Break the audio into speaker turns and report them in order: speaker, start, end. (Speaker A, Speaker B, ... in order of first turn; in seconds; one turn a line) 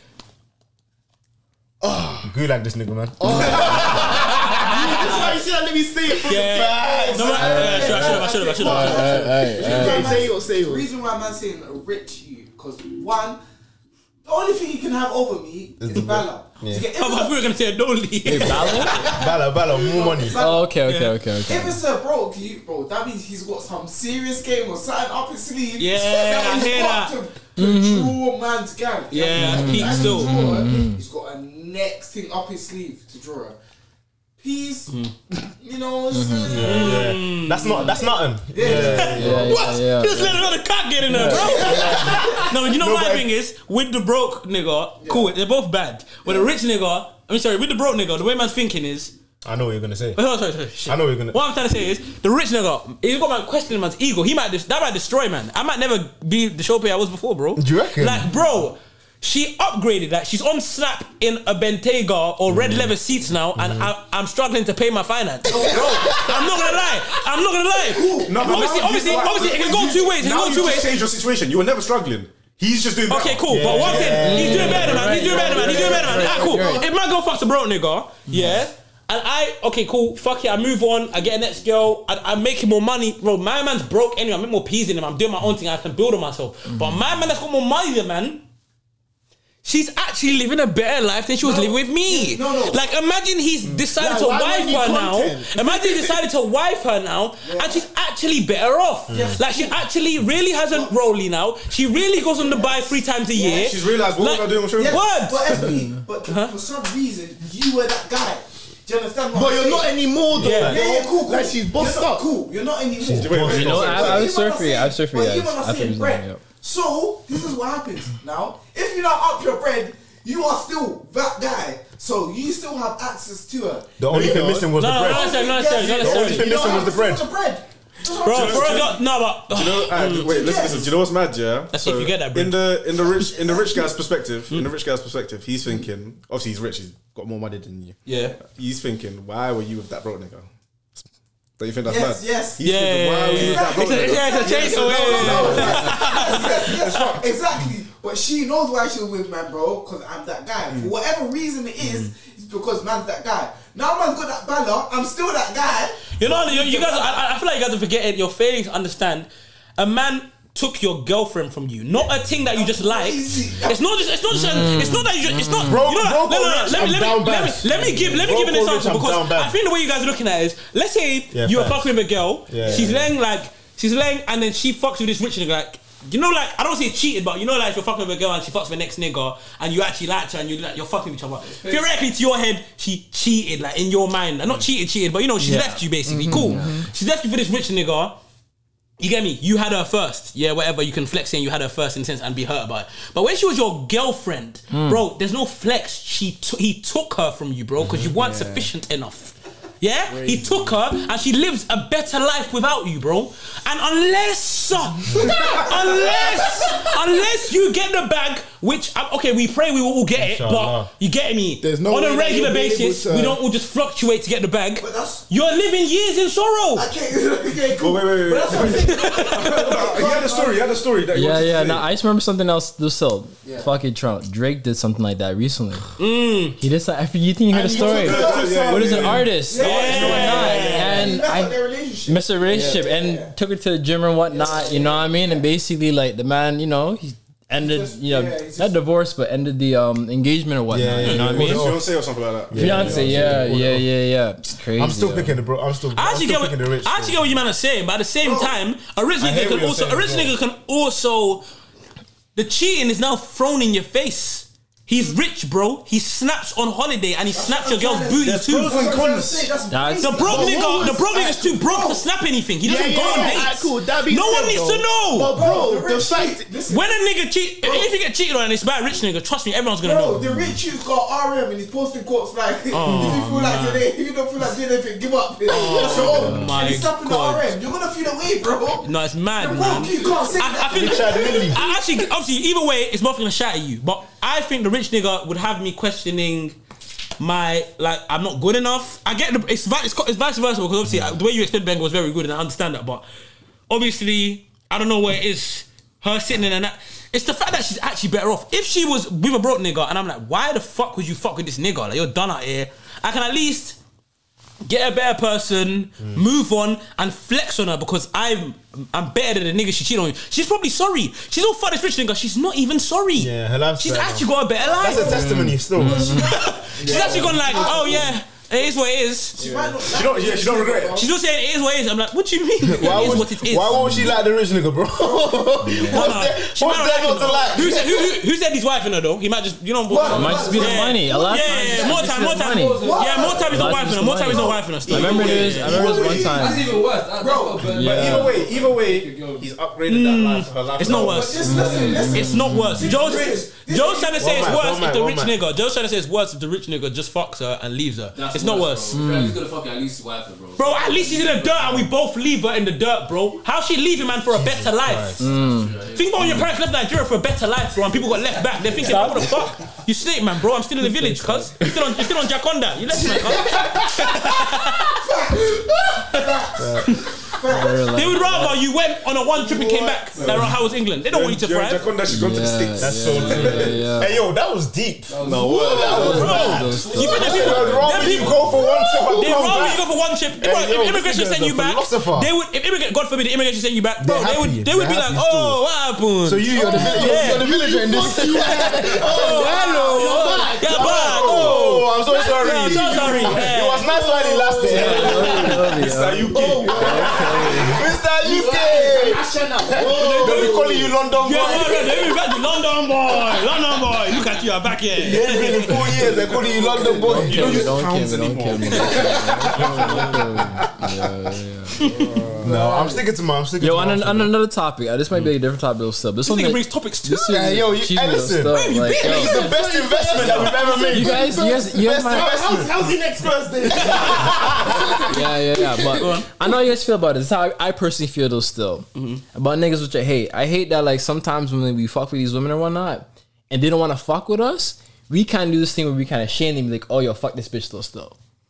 Speaker A: 1.8-2.3
Speaker B: 2.2-4.8
Speaker A: 3.2-7.7
Speaker C: 4.4-5.2
Speaker C: 6.2-9.1
Speaker B: 6.3-7.7
Speaker D: 6.8-13.4
Speaker E: 7.4-10.2
Speaker A: 8.8-10.8
Speaker D: 14.2-17.5
Speaker B: 15.8-16.9
Speaker C: 16.9-19.1
Speaker E: 18.2-19.1
Speaker D: 18.3-20.7
Speaker B: 19.0-20.4
Speaker E: 20.3-21.8
Speaker C: 20.9-21.1
Speaker D: 21.4-33.6
Speaker C: 25.8-27.1
Speaker E: 27.6-28.2
Speaker C: 29.1-30.6
Speaker E: 29.4-31.0
Speaker D: 34.4-34.9
Speaker C: 34.9-35.1
Speaker D: 35.6-37.2
Speaker E: 36.1-36.7
Speaker B: 36.5-39.6
Speaker C: 36.6-38.0
Speaker D: 37.8-39.5
Speaker E: 38.7-41.9
Speaker C: 38.8-49.1
Speaker D: 41.2-42.4
Speaker B: 41.6-43.3
Speaker D: 45.0-45.3
Speaker D: 46.2-46.5
Speaker B: 49.4-50.2
Speaker C: 50.2-71.0
Speaker B: 50.8-51.4
Speaker B: 57.6-58.3
Speaker B: 62.5-62.9
Speaker B: 63.6-63.9
Speaker D: 65.5-66.5
Speaker D: 67.7-69.3
Speaker F: 68.2-76.1
Speaker C: 73.1-88.4
Speaker B: 73.5-74.9
Speaker E: 74.1-76.9
Speaker D: 74.9-76.9
Speaker E: 78.3-78.6
Speaker E: 86.7-87.0
Speaker C: 89.6-105.6
Speaker D: 91.4-92.8
Speaker A: 93.7-96.1
Speaker D: 97.4-97.8
Speaker B: 99.1-99.4
Speaker D: 99.1-99.8
Speaker D: 100.6-100.9
Speaker D: 102.2-103.5
Speaker F: 103.4-105.8
Speaker D: 104.8-110.0
Speaker C: 106.3-106.5
Speaker A: 109.3-112.3
Speaker B: 110.3-110.8
Speaker C: 110.4-110.8
Speaker D: 110.6-129.0
Speaker B: 113.0-114.2
Speaker F: 113.1-114.3
Speaker E: 113.4-116.4
Speaker B: 124.0-127.3
Speaker A: 124.1-124.7
Speaker C: 124.8-126.5
Speaker C: 128.2-130.8
Speaker F: 128.2-140.5
Speaker D: 130.3-130.9
Speaker C: 131.7-132.6
Speaker D: 133.4-133.8
Speaker F: 141.6-147.2
Speaker D: 141.9-142.6
Speaker C: 142.6-147.1
Speaker D: 143.3-157.2
Speaker F: 150.7-150.9
Speaker C: 151.8-152.1
Speaker C: 156.2-188.2
Speaker D: 162.5-164.1
Speaker E: 164.3-165.9
Speaker B: 165.6-169.6
Speaker B: 171.3-171.9
Speaker B: 172.5-173.1
Speaker G: 181.5-181.9
Speaker E: 185.4-186.8
Speaker A: 186.1-186.9
Speaker C: 189.0-216.9
Speaker E: 194.7-195.0
Speaker G: 200.1-200.4
Speaker B: 205.1-205.5
Speaker D: 205.4-205.8
Speaker B: 210.2-210.9
Speaker A: 211.6-213.4
Speaker D: 214.8-215.3
Speaker D: 216.8-220.8
Speaker F: 217.8-221.9
Speaker C: 218.7-219.8
Speaker E: 221.1-225.8
Speaker D: 223.4-223.7
Speaker C: 226.0-226.6
Speaker E: 226.6-241.8
Speaker A: 227.5-229.2
Speaker F: 227.7-229.3
Speaker D: 227.8-233.3
Speaker C: 229.6-231.0
Speaker F: 229.8-230.1
Speaker A: 232.5-232.8
Speaker D: 234.3-235.5
Speaker D: 237.6-238.8
Speaker B: 240.7-241.9
Speaker F: 241.0-243.6
Speaker B: 242.5-243.9
Speaker E: 242.5-245.4
Speaker B: 244.8-247.4
Speaker C: 245.9-251.4
Speaker D: 248.2-248.5
Speaker B: 249.2-250.3
Speaker C: 252.3-258.8
Speaker D: 257.3-262.1
Speaker F: 258.2-259.6
Speaker E: 259.7-260.6
Speaker C: 260.0-265.4
Speaker A: 260.2-261.1
Speaker A: 262.6-266.4
Speaker D: 262.9-263.5
Speaker D: 265.3-267.0
Speaker C: 266.7-270.2
Speaker D: 267.6-267.9
Speaker D: 269.8-281.7
Speaker C: 272.7-273.8
Speaker C: 275.5-277.5
Speaker E: 275.7-276.6
Speaker C: 278.8-286.6
Speaker B: 280.7-281.6
Speaker C: 287.2-293.1
Speaker C: 293.7-303.8
Speaker C: 304.6-319.4
Speaker B: 313.1-316.3
Speaker E: 315.0-316.4
Speaker A: 316.8-318.0
Speaker D: 316.8-318.1
Speaker D: 319.4-321.1
Speaker F: 319.8-321.1
Speaker C: 321.0-323.9
Speaker B: 322.6-327.8
Speaker E: 323.7-324.1
Speaker C: 325.8-335.8
Speaker D: 327.5-327.9
Speaker D: 329.9-332.0
Speaker E: 330.1-336.7
Speaker G: 330.1-330.7
Speaker G: 331.6-333.9
Speaker D: 332.8-333.7
Speaker D: 334.3-337.7
Speaker F: 334.8-336.3
Speaker G: 335.7-339.5
Speaker E: 337.6-338.4
Speaker F: 337.8-341.6
Speaker C: 339.9-349.0
Speaker D: 340.9-344.6
Speaker E: 341.4-343.0
Speaker G: 341.4-342.4
Speaker B: 344.2-345.4
Speaker G: 348.1-351.9
Speaker E: 348.9-349.4
Speaker C: 350.6-355.2
Speaker B: 354.3-355.3
Speaker E: 355.2-356.4
Speaker G: 355.3-356.4
Speaker C: 355.9-364.9
Speaker E: 358.8-359.4
Speaker E: 360.8-361.7
Speaker D: 363.0-363.8
Speaker D: 364.9-368.2
Speaker B: 366.6-367.0
Speaker E: 367.5-368.6
Speaker C: 367.9-371.9
Speaker D: 369.4-370.4
Speaker F: 370.2-370.6
Speaker F: 371.1-373.9
Speaker E: 372.1-374.1
Speaker B: 372.8-382.3
Speaker G: 375.1-376.9
Speaker F: 375.2-378.6
Speaker A: 375.7-376.4
Speaker E: 375.9-378.3
Speaker C: 376.1-378.4
Speaker A: 378.6-379.4
Speaker C: 379.1-387.5
Speaker B: 384.0-385.6
Speaker B: 386.2-389.6
Speaker A: 386.5-395.6
Speaker C: 388.1-393.9
Speaker B: 390.6-402.2
Speaker E: 394.7-397.8
Speaker F: 394.7-397.6
Speaker A: 396.3-400.9
Speaker C: 400.0-400.6
Speaker C: 401.1-405.8
Speaker A: 401.4-401.9
Speaker B: 404.9-407.7
Speaker A: 406.2-407.3
Speaker E: 406.8-411.9
Speaker F: 407.1-410.7
Speaker B: 409.9-410.5
Speaker C: 411.8-412.2
Speaker G: 411.9-412.3
Speaker A: 412.4-413.0
Speaker B: 412.4-414.4
Speaker D: 412.6-412.9
Speaker E: 413.6-419.4
Speaker C: 416.2-417.4
Speaker B: 417.3-425.1
Speaker C: 418.5-420.7
Speaker A: 419.2-426.0
Speaker E: 420.9-422.3
Speaker C: 423.7-424.3
Speaker E: 425.0-438.1
Speaker C: 425.9-426.3
Speaker C: 428.9-429.2